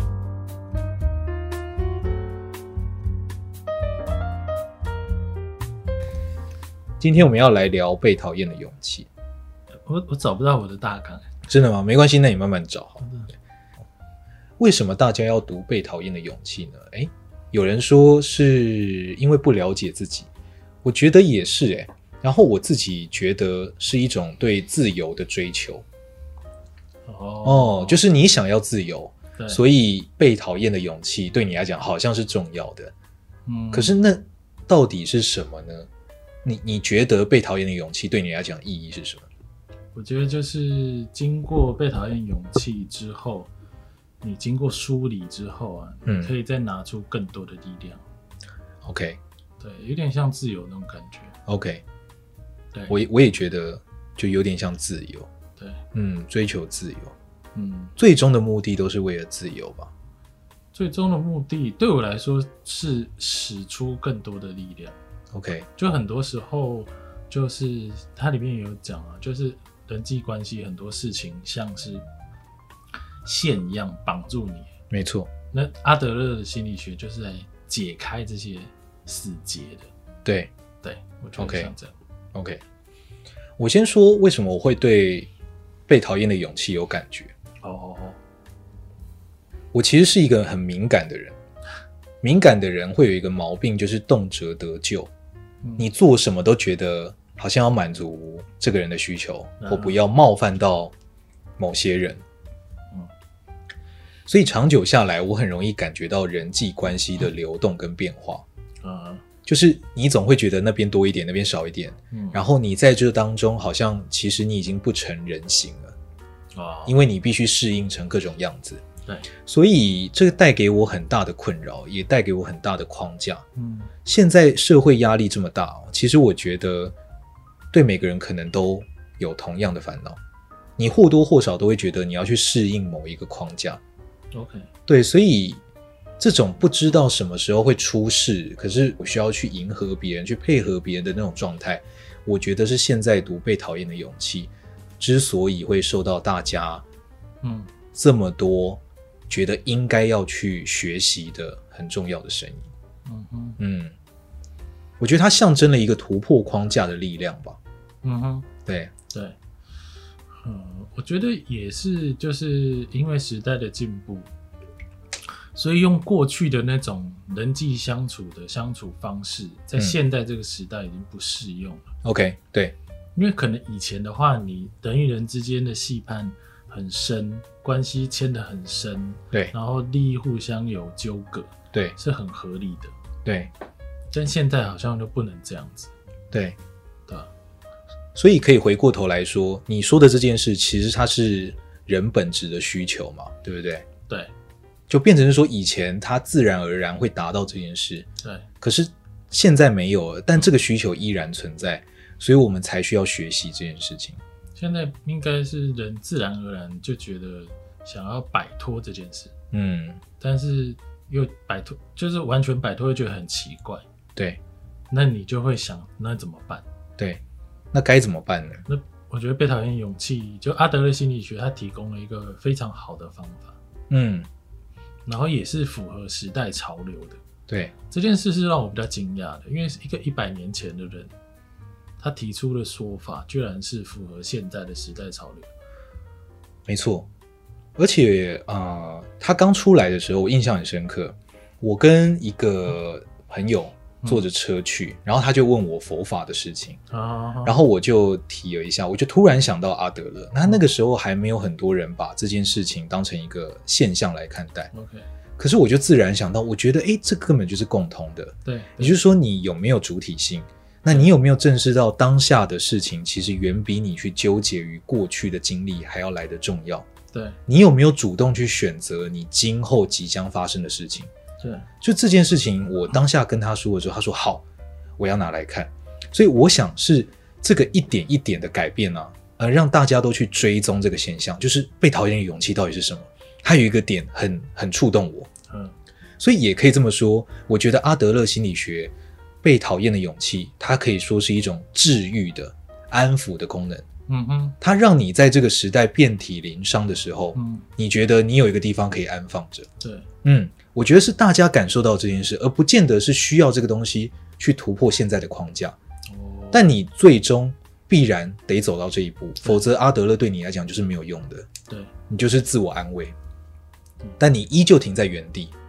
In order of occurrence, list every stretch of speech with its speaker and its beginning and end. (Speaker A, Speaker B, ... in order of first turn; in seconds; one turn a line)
Speaker A: 7.0-9.1
Speaker B: 9.8-11.3
Speaker A: 11.4-13.3
Speaker A: 14.6-20.3
Speaker A: 20.8-25.9
Speaker B: 27.1-28.0
Speaker A: 27.4-32.9
Speaker B: 29.4-29.6
Speaker B: 33.5-34.0
Speaker A: 33.7-35.9
Speaker A: 36.4-39.3
Speaker B: 39.9-43.5
Speaker B: 44.2-48.0
Speaker A: 46.0-46.3
Speaker A: 48.8-49.2
Speaker B: 49.6-51.4
Speaker A: 51.5-51.8
Speaker A: 52.9-55.3
Speaker B: 55.5-55.8
Speaker A: 55.9-57.1
Speaker B: 57.5-57.9
Speaker A: 57.9-59.9
Speaker B: 60.7-65.0
Speaker A: 65.3-65.7
Speaker B: 65.8-72.0
Speaker B: 73.2-74.7
Speaker A: 74.9-75.4
Speaker B: 75.5-79.9
Speaker A: 80.2-80.5
Speaker B: 80.8-81.9
Speaker A: 81.4-81.7
Speaker A: 82.3-82.6
Speaker A: 83.6-85.3
Speaker A: 85.9-87.3
Speaker B: 87.6-88.2
Speaker A: 89.7-91.4
Speaker A: 92.2-95.1
Speaker A: 95.8-100.9
Speaker B: 99.6-99.9
Speaker A: 101.6-102.2
Speaker A: 104.2-108.5
Speaker B: 108.8-109.3
Speaker A: 109.4-116.0
Speaker B: 112.1-112.4
Speaker B: 116.5-116.9
Speaker A: 116.8-126.9
Speaker B: 123.5-123.9
Speaker A: 127.7-130.2
Speaker A: 130.8-133.8
Speaker B: 134.3-134.7
Speaker A: 134.8-135.6
Speaker A: 136.2-146.8
Speaker B: 147.4-147.8
Speaker A: 147.8-152.7
Speaker B: 153.1-153.6
Speaker A: 153.6-153.9
Speaker A: 155.0-157.6
Speaker B: 158.0-159.3
Speaker A: 158.6-159.1
Speaker B: 160.3-164.3
Speaker B: 165.5-171.9
Speaker A: 169.7-170.0
Speaker A: 172.0-172.7
Speaker B: 173.1-182.9
Speaker A: 181.7-182.0
Speaker A: 183.2-183.5
Speaker B: 184.1-185.9
Speaker A: 186.3-186.6
Speaker A: 188.1-194.0
Speaker B: 194.0-194.3
Speaker A: 194.9-204.2
Speaker B: 198.2-198.5
Speaker B: 204.5-209.3
Speaker A: 209.5-210.1
Speaker B: 210.2-213.8
Speaker B: 214.9-216.6
Speaker A: 217.7-218.7
Speaker B: 218.7-223.6
Speaker A: 223.9-224.3
Speaker B: 225.1-227.2
Speaker A: 227.5-227.8
Speaker B: 227.8-231.1
Speaker B: 232.0-235.5
Speaker A: 236.7-237.1
Speaker A: 237.8-246.8
Speaker B: 246.9-247.6
Speaker A: 247.4-254.7
Speaker B: 254.7-255.1
Speaker A: 255.4-271.1
Speaker B: 258.4-259.0
Speaker B: 267.1-267.4
Speaker B: 271.4-271.7
Speaker A: 271.7-274.4
Speaker A: 275.0-285.4
Speaker B: 285.4-285.8
Speaker A: 286.2-288.9
Speaker A: 289.4-293.9
Speaker B: 294.1-294.6
Speaker A: 294.6-305.8
Speaker B: 297.3-297.7
Speaker B: 299.8-300.1
Speaker B: 306.1-306.6
Speaker A: 306.5-313.1
Speaker B: 311.6-311.9
Speaker A: 314.2-315.5